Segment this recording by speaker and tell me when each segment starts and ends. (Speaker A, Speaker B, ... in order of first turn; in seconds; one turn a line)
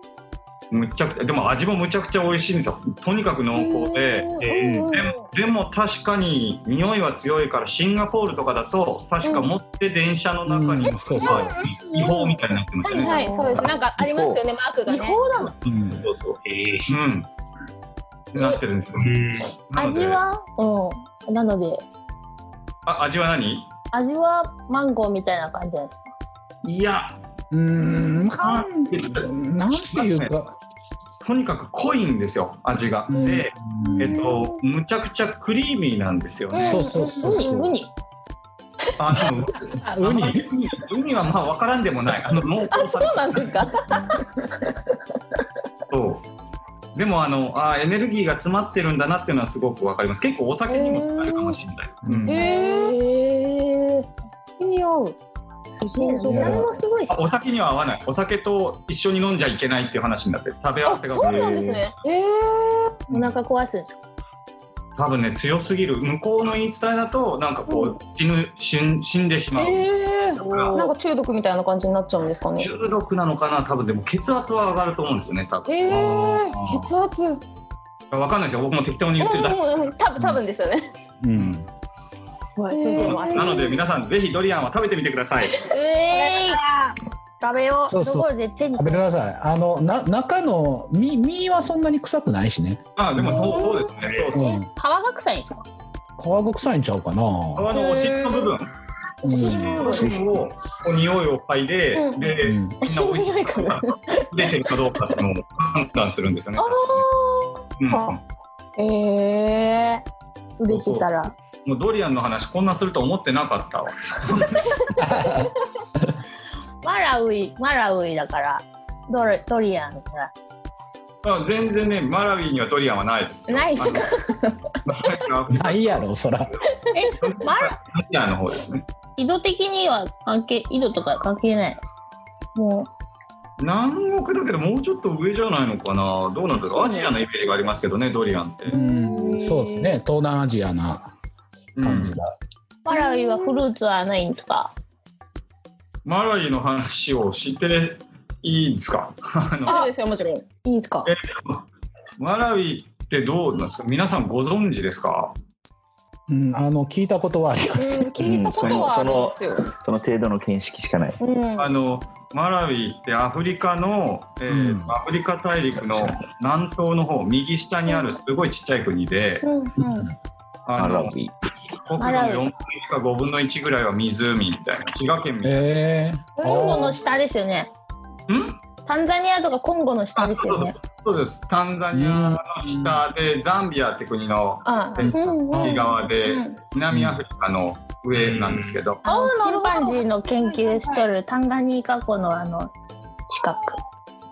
Speaker A: 0.7-13.3
Speaker B: 3.5-5.2
Speaker C: 4.4-4.9
Speaker B: 9.2-9.5
Speaker D: 10.5-11.5
Speaker B: 10.9-15.2
Speaker E: 12.8-13.7
Speaker F: 13.5-14.4
Speaker E: 14.9-15.5
Speaker D: 15.7-16.1
Speaker A: 15.7-16.4
Speaker C: 16.4-16.9
Speaker A: 16.9-17.3
Speaker A: 18.3-19.2
Speaker C: 19.0-19.5
Speaker A: 19.7-20.2
Speaker E: 19.8-21.8
Speaker A: 22.9-23.7
Speaker E: 23.9-25.9
Speaker A: 26.6-27.2
Speaker D: 27.5-30.6
Speaker A: 28.4-30.3
Speaker A: 31.2-36.9
Speaker D: 33.1-34.2
Speaker B: 33.9-34.3
Speaker D: 36.6-37.7
Speaker E: 36.6-37.9
Speaker B: 36.6-37.7
Speaker A: 39.0-44.1
Speaker D: 39.8-40.5
Speaker B: 42.7-44.2
Speaker A: 45.9-46.3
Speaker A: 47.0-52.4
Speaker B: 50.7-51.6
Speaker D: 52.1-52.4
Speaker B: 52.3-54.1
Speaker E: 52.3-53.0
Speaker B: 54.6-55.2
Speaker B: 55.7-56.7
Speaker E: 55.9-57.2
Speaker D: 56.3-56.8
Speaker A: 57.1-61.9
Speaker B: 60.9-63.0
Speaker E: 63.1-64.0
Speaker A: 65.0-69.9
Speaker B: 67.7-68.0
Speaker B: 69.5-72.7
Speaker A: 70.4-70.8
Speaker A: 72.6-76.9
Speaker B: 75.7-77.4
Speaker A: 78.1-79.6
Speaker B: 79.2-80.9
Speaker D: 81.2-81.7
Speaker E: 82.6-83.8
Speaker B: 82.7-83.8
Speaker A: 83.0-85.6
Speaker E: 85.7-86.7
Speaker B: 85.7-86.9
Speaker E: 87.4-89.0
Speaker D: 87.9-93.7
Speaker A: 93.0-94.5
Speaker B: 93.3-93.9
Speaker E: 93.4-95.6
Speaker D: 94.3-94.7
Speaker D: 96.2-97.7
Speaker A: 97.5-98.7
Speaker B: 97.7-98.5
Speaker D: 99.2-99.8
Speaker E: 99.3-100.0
Speaker A: 99.3-107.1
Speaker B: 99.3-100.1
Speaker B: 102.0-102.3
Speaker D: 102.4-102.8
Speaker E: 102.9-103.8
Speaker B: 106.6-108.2
Speaker A: 107.8-108.2
Speaker B: 108.8-110.0
Speaker E: 110.6-111.3
Speaker A: 110.7-111.1
Speaker A: 111.6-115.0
Speaker D: 115.0-115.5
Speaker E: 116.8-120.3
Speaker A: 121.2-124.1
Speaker E: 123.5-124.5
Speaker A: 124.9-126.1
Speaker D: 125.5-126.5
Speaker E: 126.9-127.8
Speaker A: 127.2-128.8
Speaker E: 129.2-131.8
Speaker E: 132.6-132.9
Speaker A: 133.6-138.8
Speaker E: 136.8-137.1
Speaker B: 138.7-139.9
Speaker D: 138.7-141.1
Speaker E: 138.8-139.5
Speaker A: 141.8-142.2
Speaker D: 141.8-142.3
Speaker E: 142.9-144.7
Speaker B: 142.9-143.6
Speaker A: 146.1-149.8
Speaker B: 149.7-150.7
Speaker E: 150.6-151.1
Speaker A: 151.1-151.7
Speaker A: 152.2-155.4
Speaker D: 156.3-158.7
Speaker B: 157.8-159.7
Speaker F: 158.2-161.2
Speaker B: 161.2-161.7
Speaker A: 161.6-169.4
Speaker D: 164.5-165.0
Speaker E: 169.4-170.0
Speaker D: 169.8-170.1
Speaker A: 170.7-171.1
Speaker F: 170.8-171.3
Speaker A: 171.9-175.6
Speaker E: 172.0-172.5
Speaker D: 175.4-177.0
Speaker E: 176.4-177.7
Speaker B: 176.5-176.8
Speaker A: 178.3-178.6
Speaker E: 178.9-180.8
Speaker A: 180.2-189.0
Speaker D: 181.9-183.0
Speaker B: 184.7-185.8
Speaker E: 184.9-186.3
Speaker D: 186.9-187.2
Speaker C: 188.1-188.8
Speaker B: 189.1-191.1
Speaker E: 189.1-192.7
Speaker E: 193.3-193.8